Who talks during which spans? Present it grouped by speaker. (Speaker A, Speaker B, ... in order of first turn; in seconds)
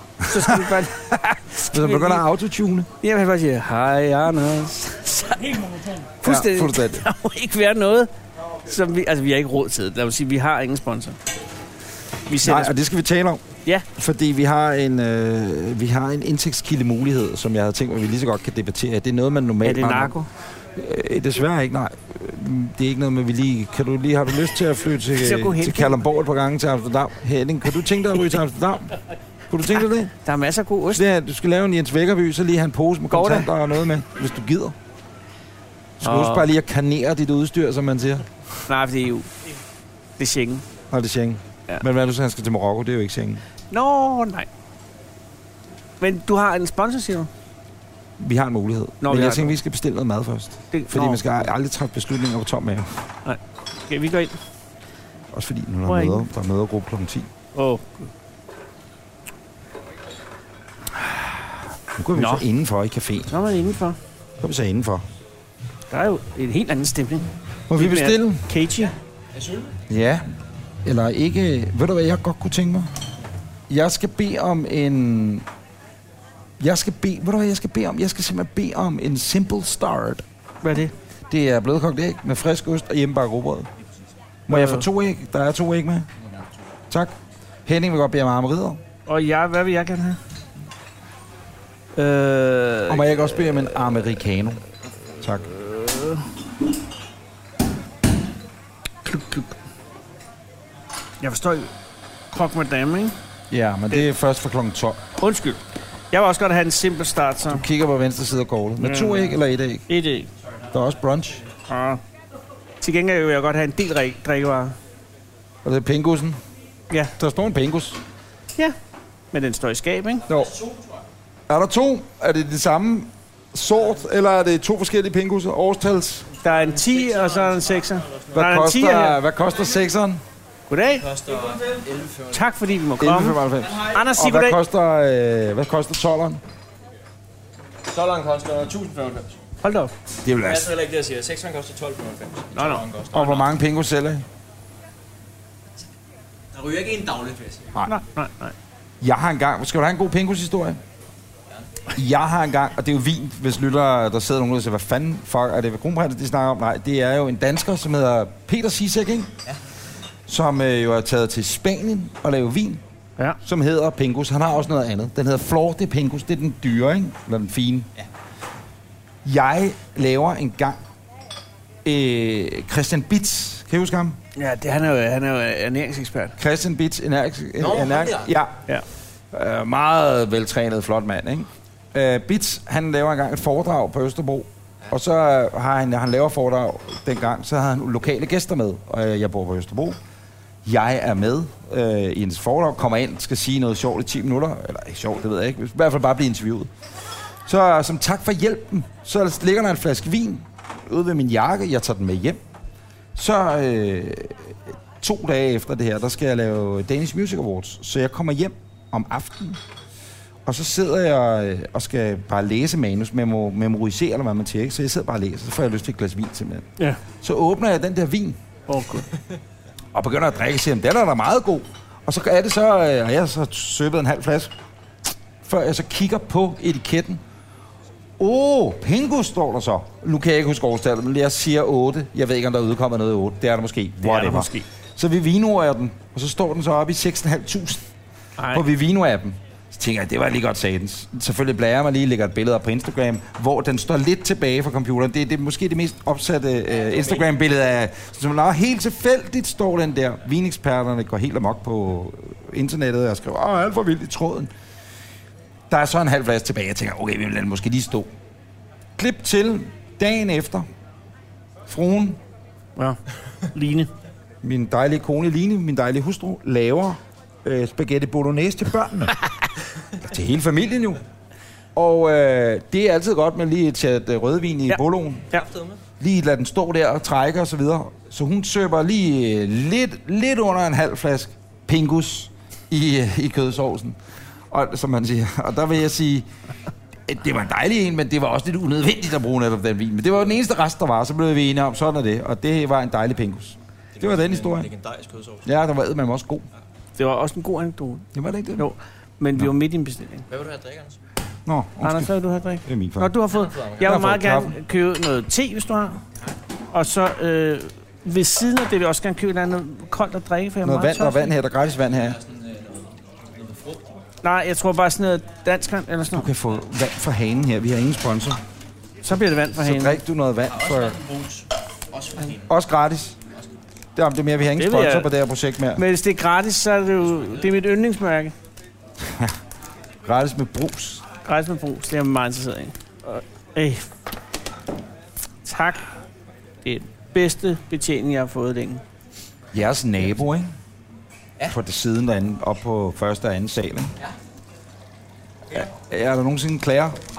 Speaker A: 0.2-2.9, 6.2-7.1, 12.4-20.1, 20.7-28.9, 29.5-30.1, 30.9-34.8, 36.0-38.3, 40.9-43.4, 48.2-53.0, 55.3-57.3, 60.9-63.3, 64.4-65.1, 67.7-68.5, 69.9-70.2, 70.8-73.0, 73.7-75.5, 76.6-80.2, 81.3-83.7, 84.5-86.1, 87.7-88.8, 92.9-94.6, 95.2-95.5, 103.5-105.0, 107.5-109.9, 110.7-111.5, 115.6-116.4, 117.2-118.0, 120.3-120.6, 121.5-126.3, 128.3-130.2, 133.0-136.4, 140.2-140.7, 143.1-144.2, 149.0-150.8, 151.9-159.3, 160.3-162.8, 163.4-167.9, 169.2-170.8, 171.8-174.2, 176.4-178.7, 179.3-190.0, 190.7-196.7, 197.4-202.4, 203.2-209.6, 210.5-216.7, 217.2-218.4, 219.9-224.5, 225.4-227.2, 228.2-237.8, 238.5-254.5, 255.7-258.1, 259.0-260.7, 261.7-262.2, 264.4-269.3, 270.0-271.0, 271.8-275.3, 276.0-284.0, 284.5-286.3, 287.1-294.7, 295.4-296.5, 298.1-298.7, 301.5-302.1, 302.6-303.2, 303.8-304.6, 310.6-312.2, 316.1-318.4, 319.6-321.0, 322.4-323.2, 324.0-325.8, 329.1-329.3, 330.1-331.0, 339.5-340.5, 341.4-344.0, 345.5-347.0
Speaker B: 0.2-1.1, 1.7-2.2, 3.0-8.1, 8.7-11.2, 12.3-12.7, 19.6-20.3, 25.2-26.0, 30.2-31.1, 33.1-33.5, 36.0-36.5, 38.7-39.3, 40.2-40.6, 43.7-44.5, 46.0-47.3, 49.0-49.6, 50.7-51.5, 53.2-54.4, 55.9-56.3, 57.5-58.1, 62.1-62.5, 63.3-64.0, 65.9-68.9, 80.6-80.9, 84.5-84.9, 89.1-90.2, 92.0-93.6, 95.5-96.3, 99.0-99.5, 101.2-101.7, 102.3-103.2, 105.2-105.6, 106.1-107.6, 108.8-109.4, 109.9-110.3, 111.7-112.0, 112.8-114.8, 119.3-120.3, 126.4-129.2, 130.7-131.1, 132.3-134.6, 139.6-139.9, 142.6-142.8, 147.9-148.6, 174.4-176.4, 218.7-219.1, 234.0-234.7, 238.4-238.7, 263.5-263.9, 297.0-300.3, 301.8-306.0, 306.7-311.3, 314.2-316.3, 319.0-320.0, 324.6-325.1, 325.8-328.3, 331.2-333.9, 335.4-335.9, 336.6-338.8
Speaker C: 69.4-69.7, 127.1-127.6, 131.0-132.4, 137.9-139.4, 140.4-143.5, 146.5-147.7, 177.6-178.3, 275.3-275.8, 293.9-295.5, 300.3-301.0, 303.3-304.0, 311.9-314.0, 320.5-322.5